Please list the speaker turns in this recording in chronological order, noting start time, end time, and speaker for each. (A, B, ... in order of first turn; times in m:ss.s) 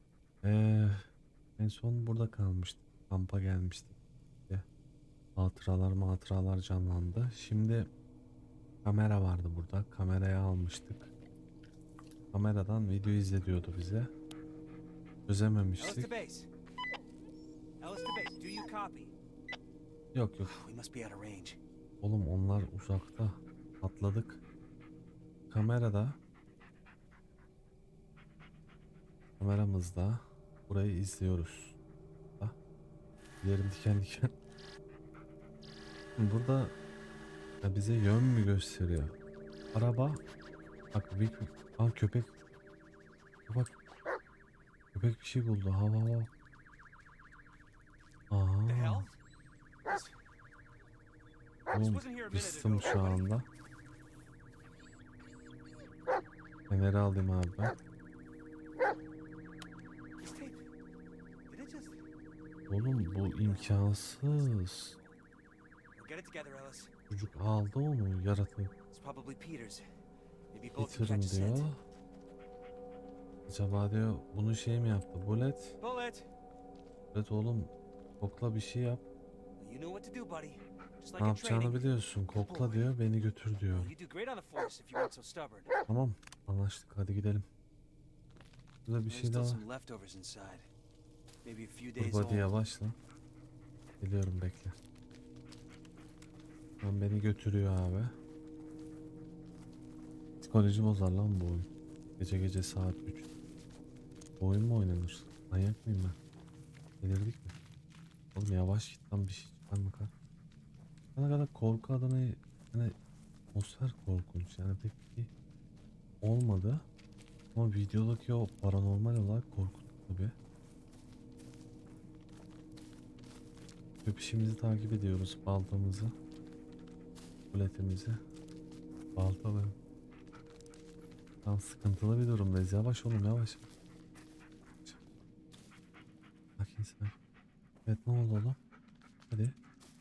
0:00.4-0:04.0 A
0:05.4-0:07.9 A
0:08.8-0:11.1 A
0:12.3-0:14.1 A
0:15.3-0:16.1 A
0:15.8-0:16.5 B
0:17.8-0:19.1 B
0:20.1-0:20.5 A
0:20.4-0:21.6 B
0:22.0-0:24.4 A
0:25.5-0:26.2 A
0:29.4-0:31.8 A
0:33.4-0:34.3 A
0:36.2-0:36.7 A
0:37.6-0:39.2 A
0:39.7-0:40.2 A
0:40.9-0:42.3 A
0:43.5-0:43.8 A
0:44.9-0:46.3 A
0:48.3-0:49.1 A
0:48.6-0:49.2 B
0:49.8-0:50.1 B
0:51.7-0:53.4 A
0:51.7-0:53.3 B
0:56.7-0:57.8 A
1:00.2-1:00.6 B
1:01.5-1:02.0 B
1:02.7-1:04.9 A
1:03.4-1:05.2 B
1:06.0-1:06.9 B
1:07.1-1:08.7 A
1:08.9-1:09.8 B
1:10.5-1:11.7 B
1:10.8-1:11.8 A
1:13.5-1:15.8 A
1:15.8-1:16.3 B
1:17.1-1:19.0 A
1:19.6-1:22.9 B
1:21.2-1:23.9 A
1:23.7-1:25.7 B
1:25.9-1:27.4 A
1:28.8-1:29.6 A
1:29.1-1:30.7 B
1:31.4-1:32.5 B
1:32.0-1:33.0 A
1:34.0-1:34.8 A
1:36.8-1:38.1 A
1:40.4-1:43.3 A
1:44.4-1:46.2 A
1:47.0-1:47.5 A
1:48.3-1:50.1 A
1:51.2-1:53.0 A
1:53.5-1:55.3 A
1:56.2-1:56.8 A
1:57.5-2:00.3 A
2:04.0-2:06.1 A
2:07.5-2:08.2 A
2:09.2-2:09.8 A
2:11.4-2:13.7 A
2:16.6-2:17.1 A
2:17.8-2:18.6 A
2:19.3-2:19.6 A